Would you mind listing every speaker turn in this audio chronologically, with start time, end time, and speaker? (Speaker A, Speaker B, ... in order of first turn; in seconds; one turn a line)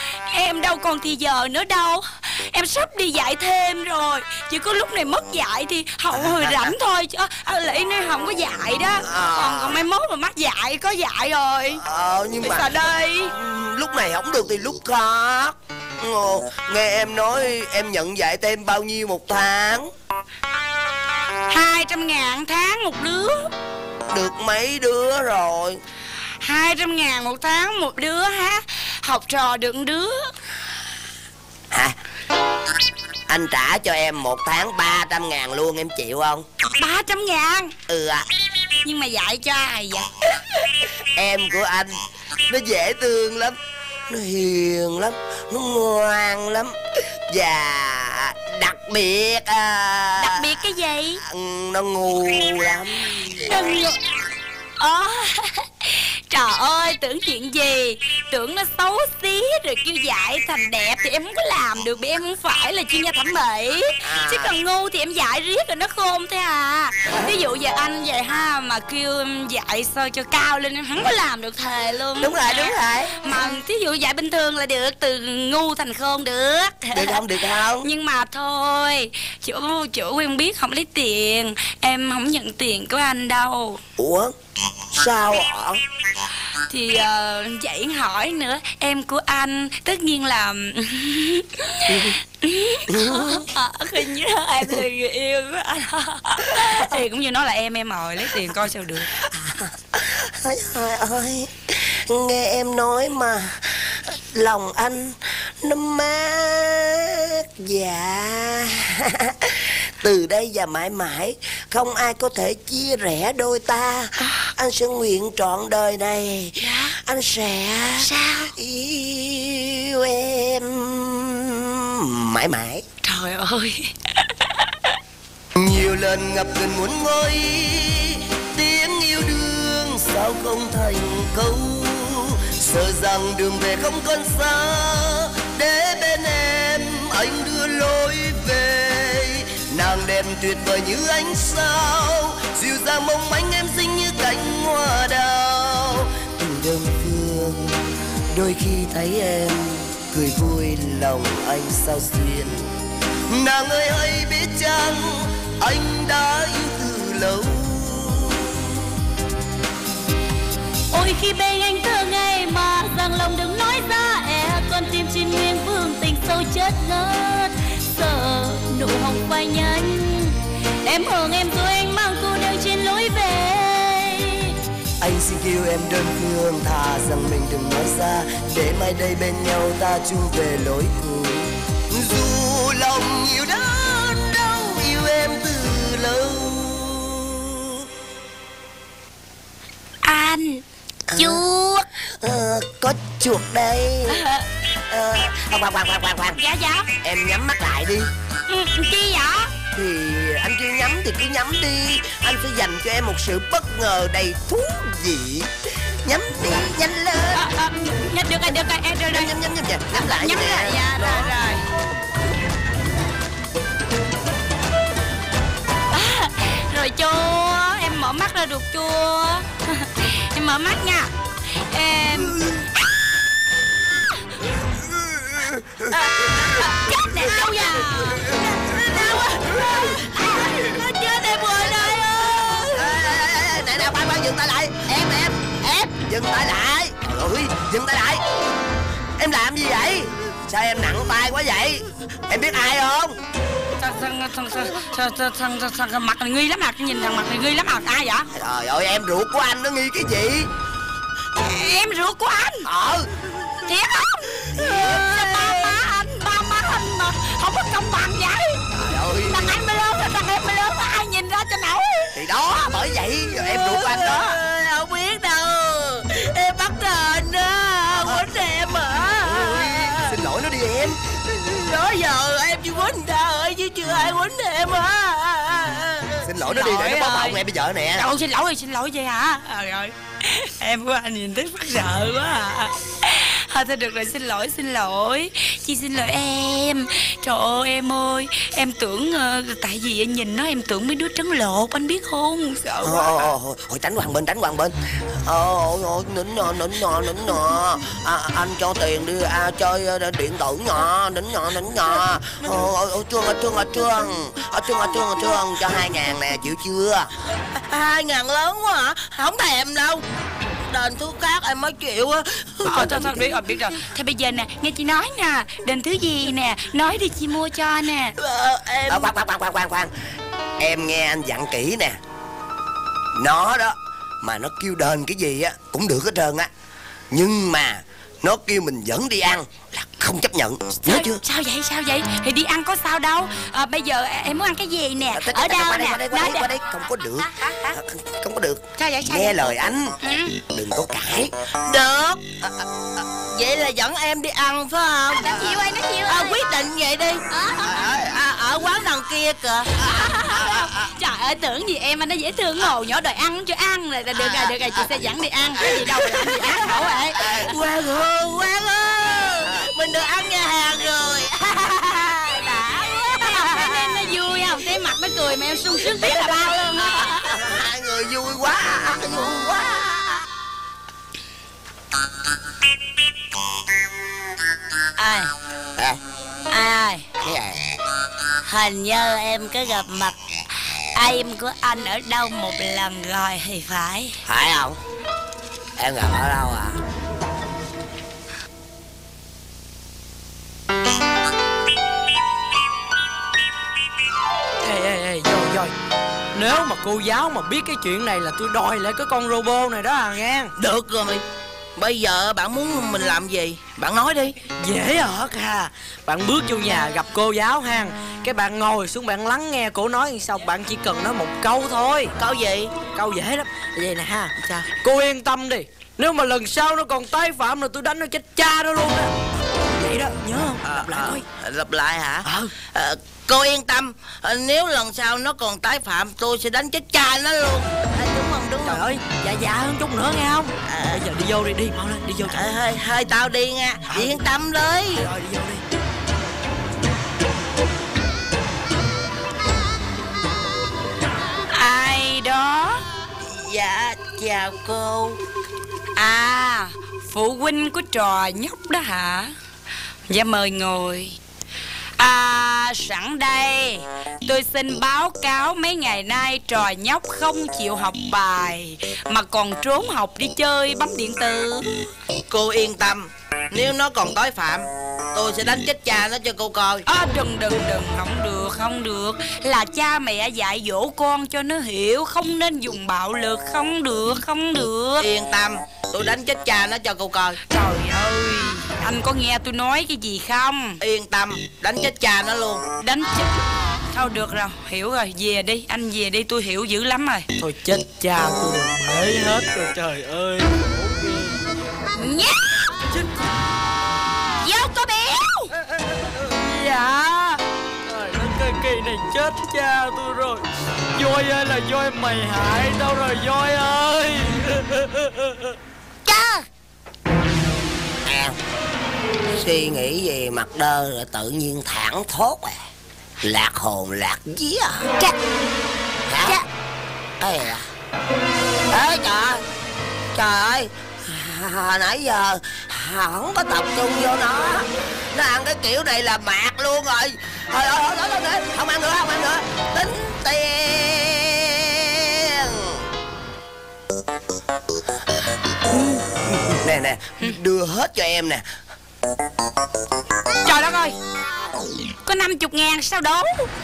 Speaker A: 0.3-11.8
Speaker B: 6.1-6.7
Speaker B: 9.0-9.8
Speaker B: 11.8-19.9
Speaker A: 12.4-13.3
Speaker A: 21.5-23.5
Speaker B: 24.1-25.8
Speaker A: 26.4-30.3
Speaker B: 33.3-36.5
Speaker A: 36.7-37.7
Speaker B: 37.9-38.2
Speaker A: 38.8-40.1
Speaker B: 41.1-41.9
Speaker B: 42.5-43.6
Speaker B: 44.1-50.5
Speaker A: 50.2-51.2
Speaker B: 51.2-53.6
Speaker A: 53.5-54.0
Speaker A: 54.8-77.2
Speaker B: 64.0-64.5
Speaker B: 72.2-73.2
Speaker B: 76.9-77.9
Speaker A: 77.8-83.8
Speaker B: 84.0-85.8
Speaker A: 86.7-99.1
Speaker B: 91.9-92.1
Speaker B: 92.9-93.5
Speaker B: 99.2-122.8
Speaker A: 116.6-116.9
Speaker A: 118.0-118.5
Speaker A: 123.0-124.3
Speaker B: 125.5-152.7
Speaker B: 153.3-158.8
Speaker A: 160.9-174.5
Speaker B: 175.0-187.8
Speaker A: 190.0-190.6
Speaker B: 191.1-191.4
Speaker A: 191.1-191.8
Speaker B: 192.1-194.2
Speaker A: 194.1-194.5
Speaker B: 194.8-196.4
Speaker A: 196.3-196.9
Speaker B: 197.0-198.1
Speaker A: 198.5-199.5
Speaker B: 199.7-205.5
Speaker B: 206.0-207.5
Speaker A: 207.3-209.3
Speaker B: 209.1-211.3
Speaker A: 209.9-211.6
Speaker A: 215.9-222.4
Speaker B: 224.8-229.9
Speaker A: 225.9-233.0
Speaker B: 231.5-232.0
Speaker B: 232.7-238.2
Speaker B: 239.2-243.2
Speaker A: 243.8-248.3
Speaker B: 248.3-250.5
Speaker A: 251.3-252.7
Speaker B: 252.6-253.1
Speaker A: 253.7-258.6
Speaker B: 254.6-255.0
Speaker B: 258.7-259.6
Speaker A: 259.2-262.2
Speaker B: 262.1-264.4
Speaker C: 263.4-270.1
Speaker B: 269.2-271.0
Speaker C: 271.2-276.2
Speaker B: 276.2-278.1
Speaker A: 276.4-277.4
Speaker A: 277.9-293.3
Speaker B: 292.8-307.1
Speaker C: 307.6-310.0
Speaker C: 310.7-313.2
Speaker A: 312.6-318.1
Speaker C: 318.2-319.1
Speaker B: 318.9-319.9
Speaker B: 320.6-322.0
Speaker B: 323.1-326.5
Speaker B: 327.1-331.2
Speaker A: 330.9-336.5
Speaker B: 335.1-341.3
Speaker A: 337.3-337.7
Speaker A: 338.8-339.5
Speaker A: 340.0-340.4
Speaker C: 341.6-342.6
Speaker C: 343.2-345.5
Speaker A: 345.1-346.4
Speaker C: 346.1-349.9
Speaker A: 347.3-347.7
Speaker A: 349.8-357.3
Speaker C: 355.7-362.8
Speaker B: 355.9-356.4
Speaker A: 363.2-367.3
Speaker B: 366.0-370.2
Speaker A: 375.0-375.3
Speaker A: 376.5-377.0
Speaker B: 377.2-377.6
Speaker A: 378.5-380.1
Speaker A: 380.9-384.2
Speaker B: 384.2-384.8
Speaker B: 385.8-386.8
Speaker D: 394.6-395.7
Speaker D: 396.3-400.5
Speaker C: 400.6-401.2
Speaker C: 401.8-404.4
Speaker D: 404.5-412.1
Speaker C: 412.1-412.9
Speaker D: 412.8-419.1
Speaker D: 419.7-421.2
Speaker C: 420.6-428.9
Speaker D: 422.2-422.5
Speaker D: 428.6-432.5
Speaker C: 430.7-431.1
Speaker C: 432.2-435.4
Speaker D: 433.9-434.2
Speaker A: 441.5-442.8
Speaker C: 443.3-445.2
Speaker A: 445.9-449.3
Speaker A: 450.1-451.1
Speaker A: 452.0-461.9
Speaker C: 462.3-466.8
Speaker A: 466.9-475.1
Speaker C: 475.0-477.4
Speaker A: 477.5-480.8
Speaker C: 480.8-482.6
Speaker A: 482.8-483.4
Speaker A: 483.9-487.3
Speaker D: 487.4-491.3
Speaker A: 491.9-492.4
Speaker A: 494.4-495.5
Speaker D: 496.1-500.4
Speaker D: 500.9-505.5
Speaker A: 506.1-506.4
Speaker B: 508.0-508.4
Speaker B: 509.3-512.6
Speaker B: 513.2-514.9
Speaker B: 516.1-516.4
Speaker B: 517.2-517.7
Speaker B: 518.7-519.4
Speaker B: 520.1-532.8
Speaker B: 536.4-538.4
Speaker A: 540.4-541.0
Speaker A: 542.0-543.5